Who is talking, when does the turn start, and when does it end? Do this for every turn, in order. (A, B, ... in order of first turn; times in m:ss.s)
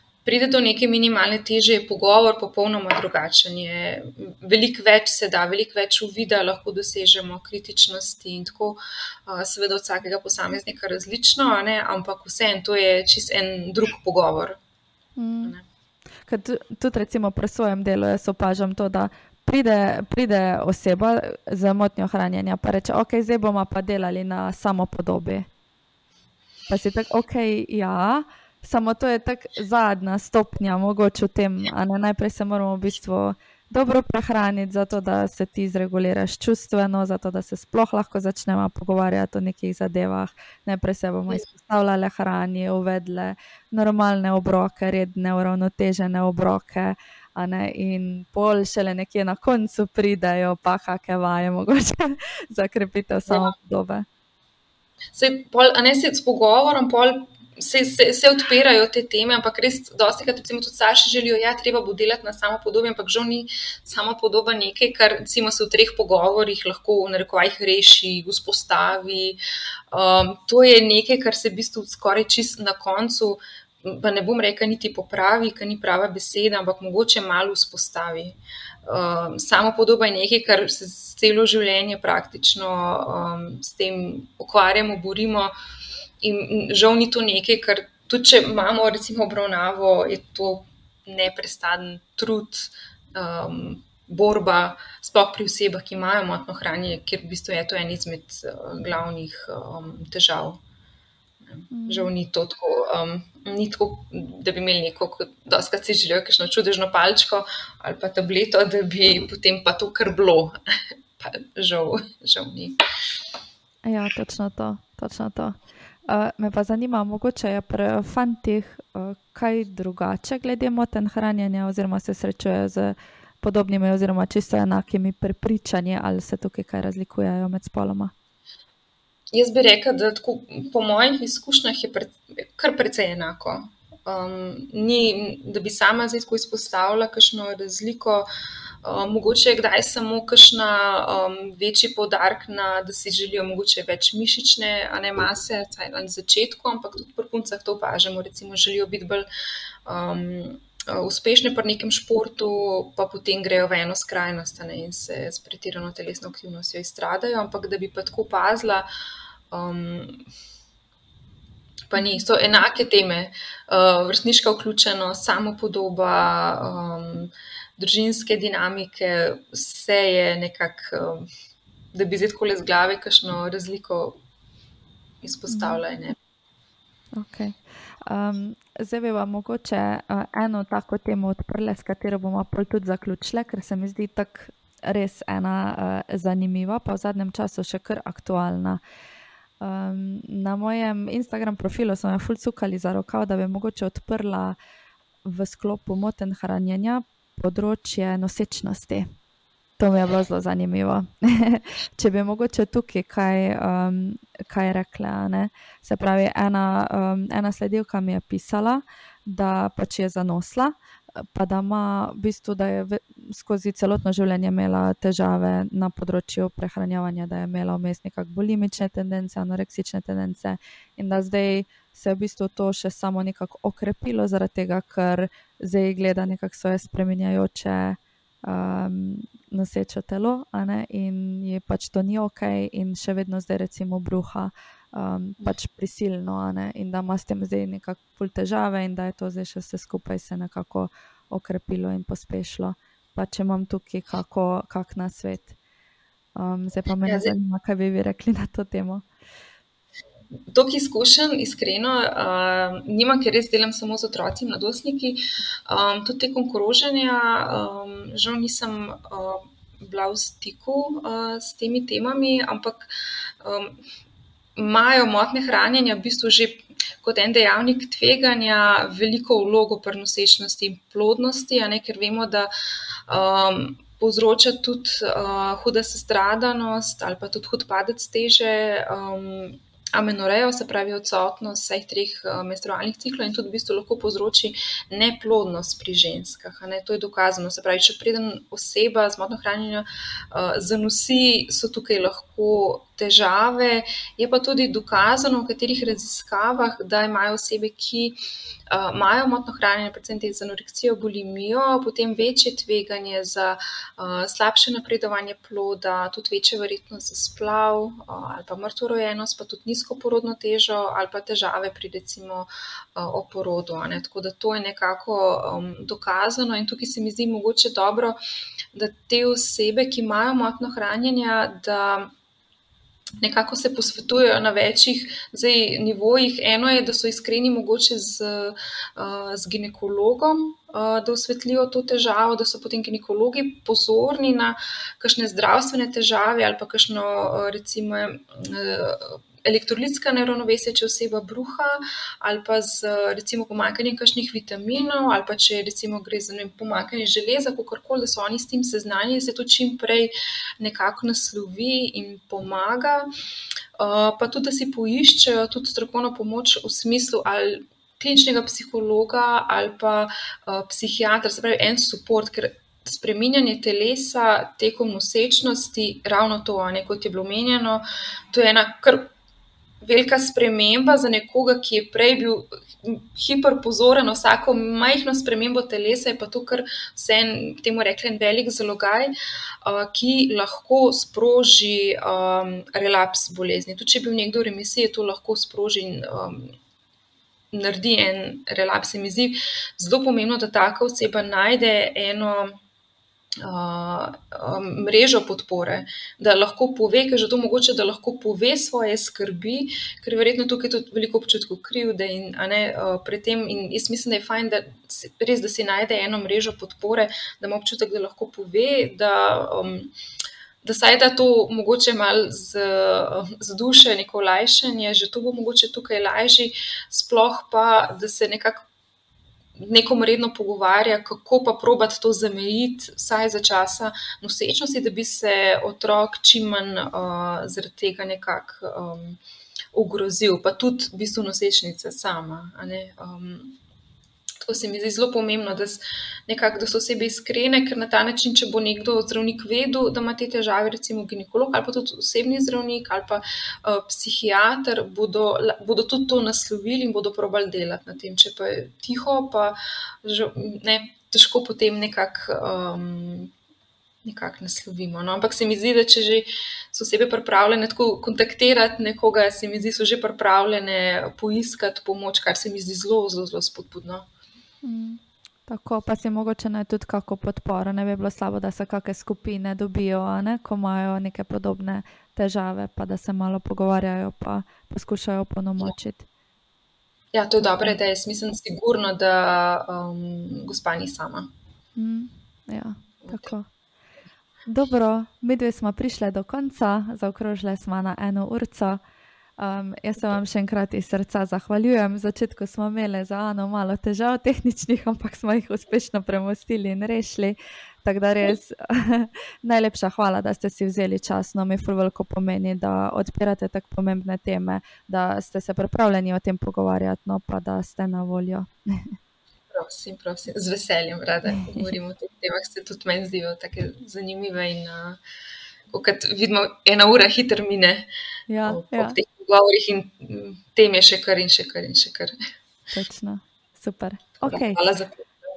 0:00.2-0:14.6 A
0:15.2-0:15.5 B
0:16.3-0:25.4 B
0:26.7-0:54.0 B
0:53.3-0:53.5 A
0:55.1-1:09.4 A
1:09.9-1:25.5 A
1:26.2-1:40.6 A
1:41.4-1:50.6 A
1:41.7-1:42.1 B
1:51.2-1:52.8 A
1:53.8-2:08.1 B
2:09.3-2:18.3 A
2:18.8-2:29.3 A
2:29.9-2:38.9 A
2:39.5-2:40.2 A
2:41.9-2:51.3 A
2:41.9-2:42.2 B
2:51.9-2:54.2 A
2:55.2-2:56.2 A
2:55.5-2:55.8 B
2:57.1-3:08.8 B
3:09.6-3:14.6 B
3:15.2-3:19.0 B
3:19.8-4:05.6 B
4:06.4-4:09.0 B
4:07.0-4:07.3 A
4:10.5-4:22.9 A
4:23.4-4:23.8 A
4:24.6-4:32.5 A
4:33.1-4:58.2 A
4:58.7-5:18.2 A
5:18.7-5:22.1 A
5:23.2-5:53.0 A
5:53.8-6:09.1 A
6:09.8-6:19.1 A
6:19.6-6:26.6 A
6:27.5-6:32.6 A
6:33.4-6:49.9 A
6:50.6-6:58.6 A
6:59.6-7:09.2 A
7:09.7-7:13.6 A
7:14.4-7:33.3 A
7:34.0-7:44.0 A
7:44.6-7:56.0 B
7:57.1-8:01.3 A
8:01.8-8:03.5 B
8:03.0-8:03.3 A
8:04.5-8:08.8 B
8:09.4-8:28.9 B
8:29.5-8:35.0 A
8:31.3-8:31.7 B
8:35.7-8:37.9 A
8:38.3-8:39.0 B
8:38.4-8:42.1 A
8:42.7-8:44.6 B
8:44.2-8:45.1 A